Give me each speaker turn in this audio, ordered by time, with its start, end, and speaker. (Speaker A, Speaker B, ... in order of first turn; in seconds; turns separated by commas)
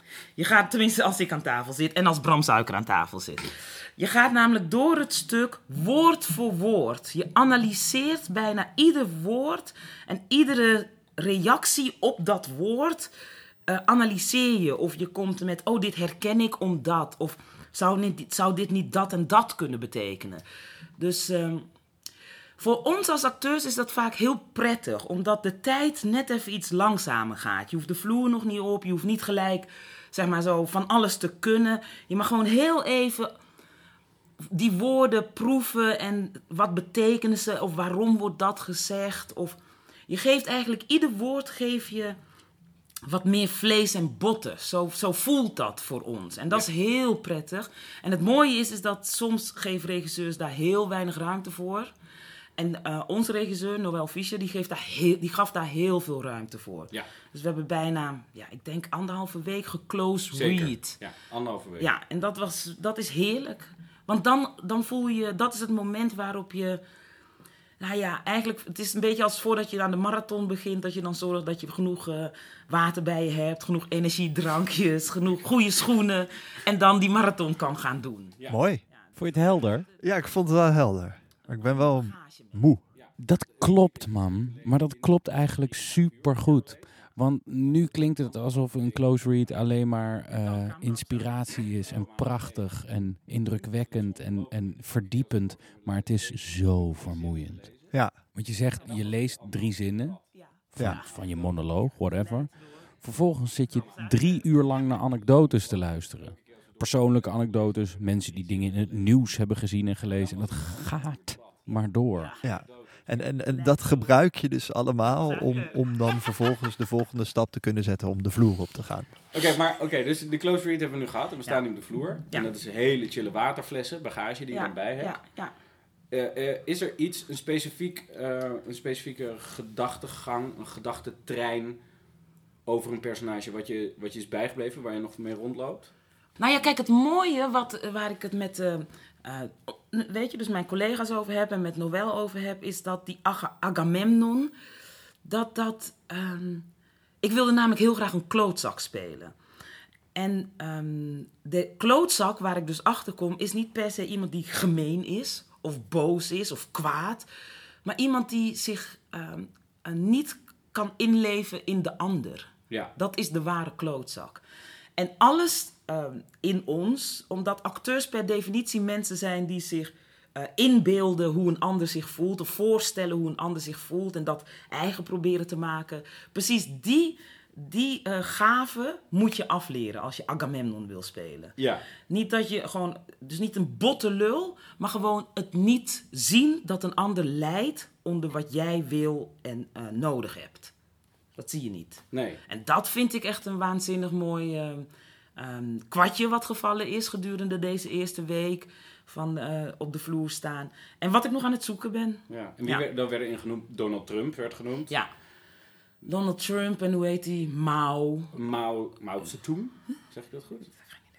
Speaker A: 0.4-13.1, Speaker A: 13.7-20.4, Speaker A: 21.0-21.7, Speaker A: 22.6-33.3, Speaker A: 34.5-42.2, Speaker A: 43.0-51.9, Speaker A: 52.5-61.0, Speaker B: 60.3-61.9, Speaker A: 61.8-66.8, Speaker A: 67.8-80.1, Speaker C: 78.5-78.8, Speaker D: 79.1-79.9, Speaker C: 80.0-82.8, Speaker A: 81.5-82.6, Speaker D: 83.2-97.7, Speaker A: 90.4-91.7, Speaker D: 98.3-100.2, Speaker A: 100.3-102.6, Speaker D: 100.7-102.5, Speaker D: 103.0-112.3, Speaker A: 103.6-104.7, Speaker B: 110.2-110.9, Speaker A: 112.1-112.5, Speaker C: 112.4-119.1, Speaker A: 113.4-114.1, Speaker A: 115.2-115.8, Speaker B: 119.3-125.2, Speaker A: 124.5-125.5, Speaker B: 126.1-131.8, Speaker B: 132.6-135.9, Speaker A: 136.4-144.5, Speaker A: 145.2-146.7, Speaker A: 147.2-149.3, Speaker A: 150.1-157.2, Speaker A: 157.8-164.4, Speaker A: 164.9-190.7, Speaker B: 181.6-181.8, Speaker A: 191.4-202.8, Speaker B: 192.1-192.4, Speaker B: 202.3-204.9, Speaker A: 206.0-208.3, Speaker B: 208.3-210.7